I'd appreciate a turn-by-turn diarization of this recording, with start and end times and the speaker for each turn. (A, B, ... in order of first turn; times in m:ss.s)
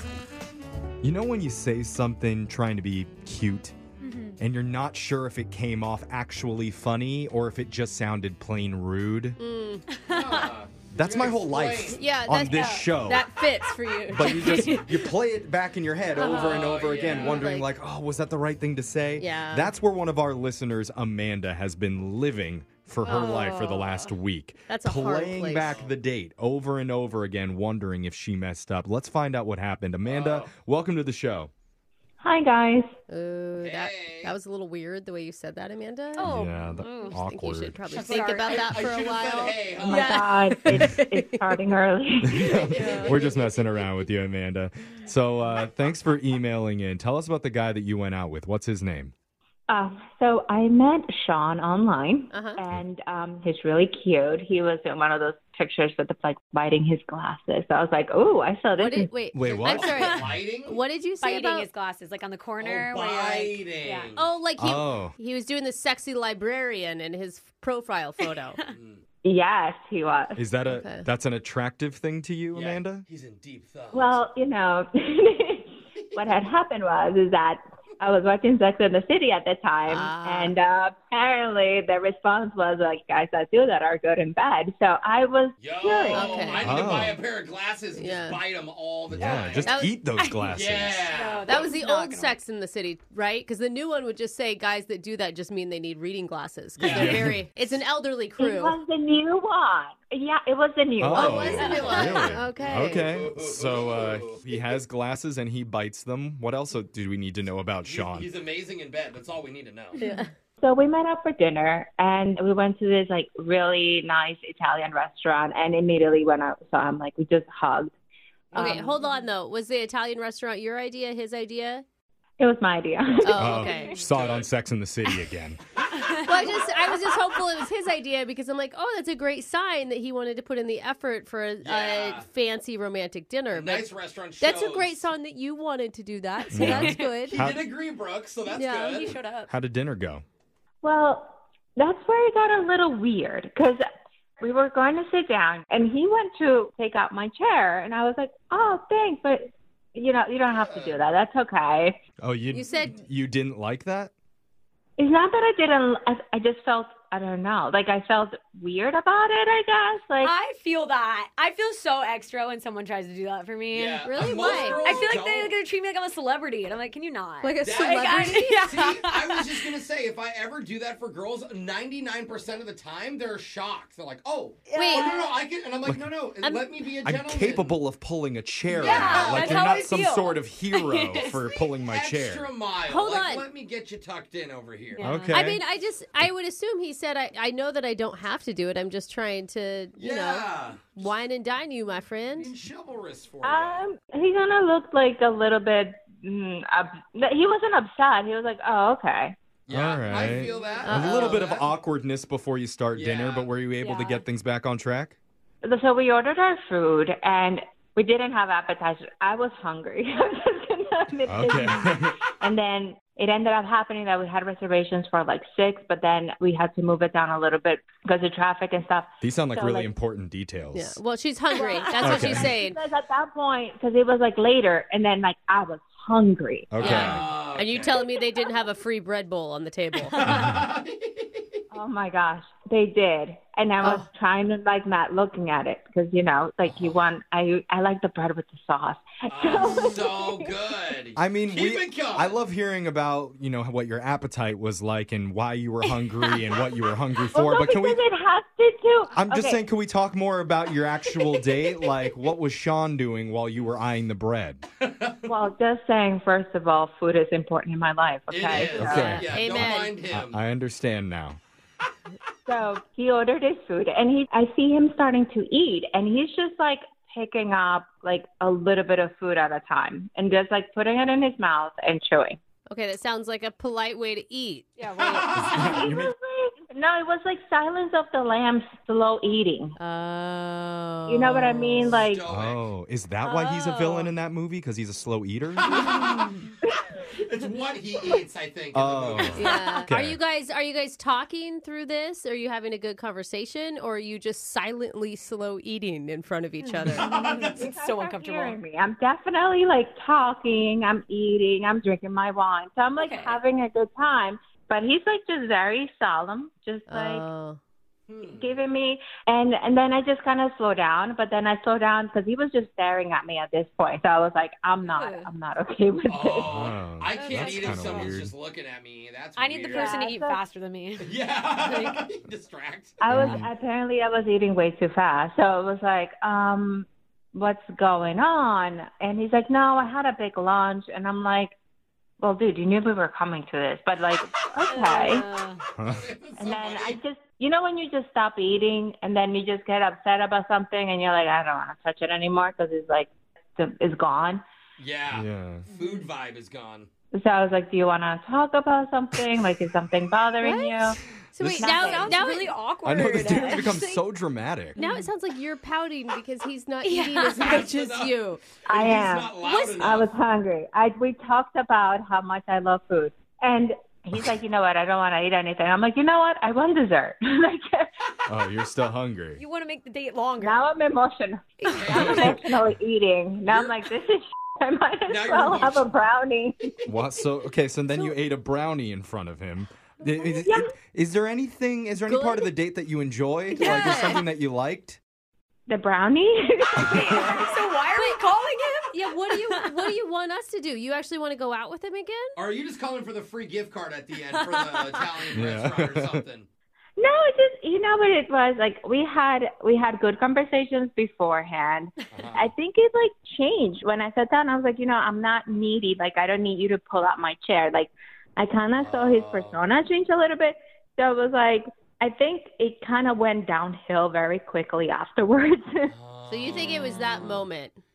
0:01.0-0:03.8 A
0:04.0-0:04.4 B
0:04.4-0:09.4 A
0:09.4-0:09.9 C
0:10.1-0:10.5 B
0:10.1-0:12.0 D
0:10.9-0:13.3 A
0:11.9-0:15.0 C
0:12.5-0:12.8 B
0:14.1-0:31.5 A
0:14.3-0:14.8 B
0:16.2-0:16.6 B
0:16.2-0:17.7 C
0:16.2-0:17.4 D
0:19.2-0:19.7 C
0:23.0-0:24.1 C
0:23.1-0:23.5 B
0:24.7-0:25.8 C
0:30.0-0:30.5 D
0:32.2-0:33.0 E
0:33.1-0:36.5 C
0:33.6-0:34.3 D
0:36.2-0:37.2 B
0:36.3-0:37.8 A
0:37.1-0:41.6 C
0:37.9-0:38.8 B
0:37.9-0:40.2 D
0:39.8-0:42.5 E
0:40.7-0:41.0 A
0:42.2-0:49.1 A
0:42.5-0:43.2 C
0:42.6-0:43.4 B
0:49.7-0:59.1 E
0:52.3-0:52.6 C
0:58.8-1:01.7 C
0:59.3-1:00.1 A
0:59.7-1:00.8 D
1:01.2-1:04.1 B
1:02.6-1:04.3 D
1:04.2-1:08.6 C
1:04.6-1:05.1 A
1:08.7-1:09.0 D
1:09.2-1:10.4 E
1:10.4-1:13.0 A
1:10.7-1:11.0 C
1:12.5-1:14.2 D
1:13.9-1:26.5 E
1:19.9-1:20.5 C
1:25.6-1:29.7 D
1:26.1-1:26.8 C
1:26.6-1:27.2 A
1:28.0-1:28.4 C
1:29.1-1:31.1 A
1:29.6-1:30.0 C
1:30.5-1:31.6 D
1:31.1-1:32.4 B
1:31.4-1:38.8 C
1:36.8-1:37.3 D
1:36.9-1:37.4 A
1:38.4-1:41.8 E
1:41.0-1:48.3 A
1:41.1-1:43.1 C
1:41.4-1:44.4 D
1:41.7-1:42.1 B
1:47.8-1:50.0 D
1:50.0-1:50.3 C
1:50.0-1:50.2 B
1:50.6-1:57.9 E
1:58.5-1:58.9 E
1:58.5-2:01.8 C
1:58.6-1:59.2 B
2:02.4-2:03.6 E
2:03.2-2:04.0 C
2:03.3-2:05.6 A
2:04.0-2:04.5 D
2:06.0-2:07.1 B
2:06.2-2:13.9 C
2:11.6-2:12.3 D
2:13.5-2:15.1 D
2:14.4-2:17.4 C
2:16.5-2:17.1 B
2:16.5-2:17.6 A
2:17.2-2:19.1 D
2:18.5-2:19.0 C
2:18.8-2:19.5 B
2:19.5-2:20.2 A
2:20.8-2:23.8 E
2:24.4-2:32.0 E
2:30.5-2:31.0 D
2:32.2-2:34.1 A
2:32.5-2:33.0 C
2:35.0-2:40.3 E
2:40.2-2:49.5 B
2:43.7-2:45.5 D
2:44.1-2:45.0 C
2:47.4-2:49.0 C
2:47.6-2:57.8 D
2:54.7-2:55.3 B
2:54.7-2:55.3 C
2:55.9-2:56.1 A
2:56.4-2:56.7 C
2:57.0-3:02.5 A
2:58.7-2:59.8 D
2:58.8-3:01.4 B
3:01.2-3:05.0 D
3:02.9-3:03.5 C
3:05.0-3:05.4 B
3:05.0-3:05.6 A
3:05.3-3:12.5 C
3:10.0-3:10.9 D
3:12.4-3:13.8 D
3:13.4-3:19.4 E
3:19.7-3:21.7 D
3:19.7-3:25.2 A
3:20.8-3:21.5 C
3:22.9-3:23.5 D
3:23.8-3:24.2 B
3:25.6-3:39.9 E
3:31.2-3:32.2 A
3:39.2-3:41.0 A
3:40.7-3:42.8 C
3:41.6-3:46.8 E
3:42.0-3:42.5 A
3:46.7-3:47.2 A
3:46.8-3:50.2 C
3:46.8-3:48.0 D
3:50.2-3:51.4 D
3:50.2-3:50.6 A
3:51.7-4:00.5 E
3:56.6-3:57.0 D
3:59.2-4:02.4 D
4:01.2-4:08.0 A
4:07.3-4:09.6 E
4:09.1-4:14.6 A
4:14.8-4:15.3 D
4:15.2-4:19.2 E
4:18.3-4:20.4 D
4:18.6-4:21.4 A
4:18.9-4:19.9 C
4:22.5-4:32.4 E
4:32.7-4:34.7 C
4:34.8-4:35.8 B
4:35.0-4:35.6 D
4:35.3-4:36.1 A
4:35.6-4:39.8 E
4:39.8-4:42.0 C
4:41.1-4:42.3 E
4:41.9-4:42.7 D
4:42.2-4:45.8 A
4:43.2-4:44.1 B
4:45.7-4:46.2 D
4:45.8-4:46.3 B
4:46.6-4:47.1 E
4:47.1-4:49.4 D
4:48.7-4:50.2 A
4:49.2-4:49.9 B
4:49.4-4:57.1 C
4:56.9-4:58.6 B
4:56.9-4:57.7 D
4:57.6-5:07.3 E
5:03.0-5:03.4 B
5:06.9-5:07.6 C
5:08.1-5:08.5 D
5:08.4-5:16.5 E
5:14.8-5:15.3 B
5:16.1-5:19.9 D
5:16.5-5:18.3 A
5:17.2-5:18.1 B
5:19.4-5:22.0 B
5:19.7-5:20.4 E
5:21.0-5:23.0 D
5:23.0-5:31.5 E
5:23.1-5:23.5 A
5:32.2-5:35.2 E
5:34.7-5:35.6 B
5:35.8-5:36.1 A
5:35.8-5:37.0 D
5:36.4-5:44.4 E
5:44.8-5:46.9 D
5:45.1-5:45.6 A
5:45.8-5:46.0 B
5:47.1-5:51.0 E
5:50.4-5:52.5 C
5:51.4-5:51.7 A
5:51.6-5:52.2 E
5:51.6-5:54.0 B
5:52.8-5:54.8 A
5:54.8-5:55.1 B
5:54.8-5:58.4 C
5:56.8-5:57.6 B
5:57.4-5:58.1 D
5:58.7-6:00.1 D
5:58.7-6:07.9 E
5:59.5-5:59.8 C
6:08.3-6:09.4 A
6:09.4-6:10.7 B
6:10.4-6:16.8 E
6:11.7-6:12.4 B
6:11.7-6:12.4 D
6:12.1-6:12.4 A
6:13.5-6:13.8 D
6:15.1-6:15.9 D
6:16.9-6:25.0 A
6:20.3-6:20.7 E
6:22.1-6:22.5 C
6:23.5-6:24.2 C
6:23.6-6:24.2 B
6:25.7-6:27.2 E
6:26.8-6:27.3 A
6:26.8-6:29.9 B
6:27.9-6:28.2 C
6:28.8-6:32.3 C
6:32.4-6:36.5 D
6:34.4-6:35.0 B
6:35.3-6:36.2 A
6:37.0-6:55.9 E
6:42.1-6:42.5 D
6:48.8-6:49.6 D
6:55.9-6:57.4 D
6:56.3-6:57.8 C